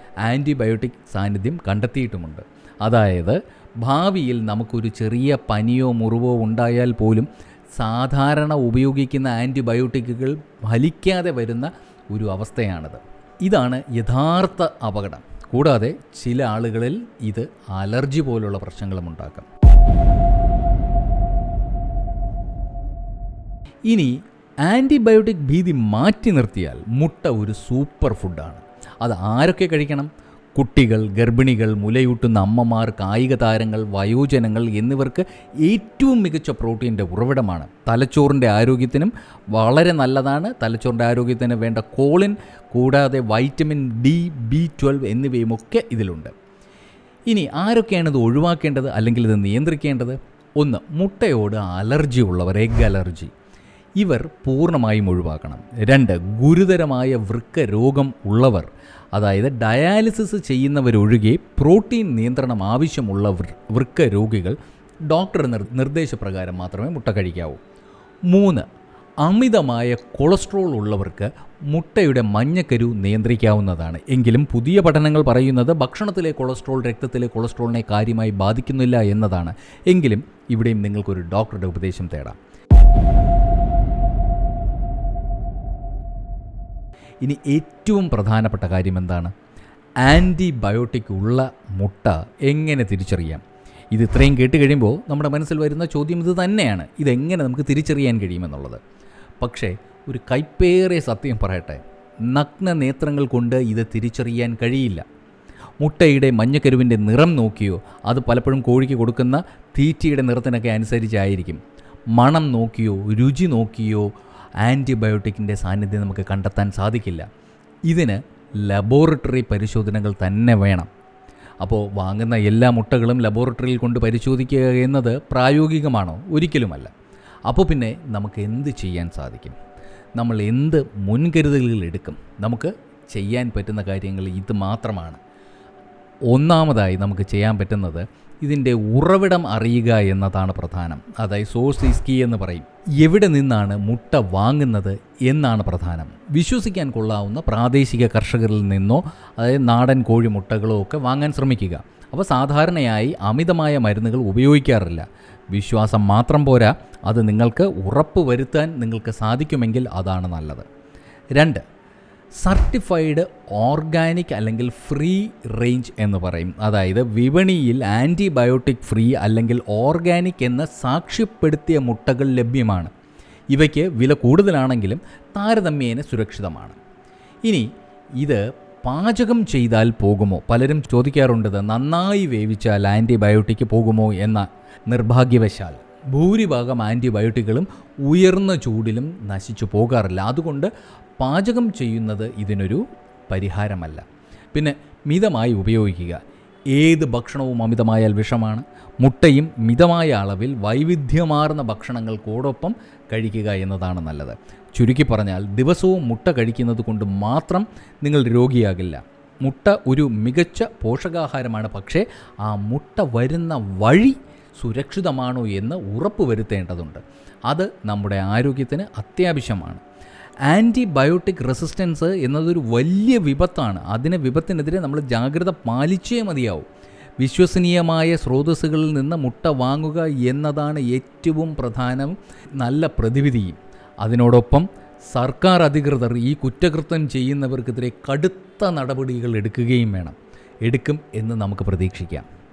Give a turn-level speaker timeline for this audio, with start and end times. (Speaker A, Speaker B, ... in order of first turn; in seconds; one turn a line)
Speaker A: 0.2-19.5
Speaker A: 24.6-46.3
Speaker A: 47.3-53.3
Speaker A: 54.0-64.6
Speaker A: 65.1-67.6
Speaker A: 68.3-68.7
Speaker A: 69.2-82.4
Speaker A: 87.2-89.3
Speaker A: 90.0-98.8
Speaker A: 99.4-105.0
Speaker A: 105.8-111.6
Speaker A: 112.1-114.1
Speaker A: 114.6-117.3
Speaker A: 117.9-120.9
Speaker A: 121.6-126.9
Speaker A: 127.5-129.6
Speaker A: 130.2-135.2
Speaker A: 136.3-160.7
Speaker A: 161.3-161.6
Speaker A: 162.4-172.9
Speaker A: 173.5-176.8
Speaker A: 178.2-196.2
Speaker A: 196.7-219.8
Speaker A: 220.5-226.7
Speaker A: 227.2-242.3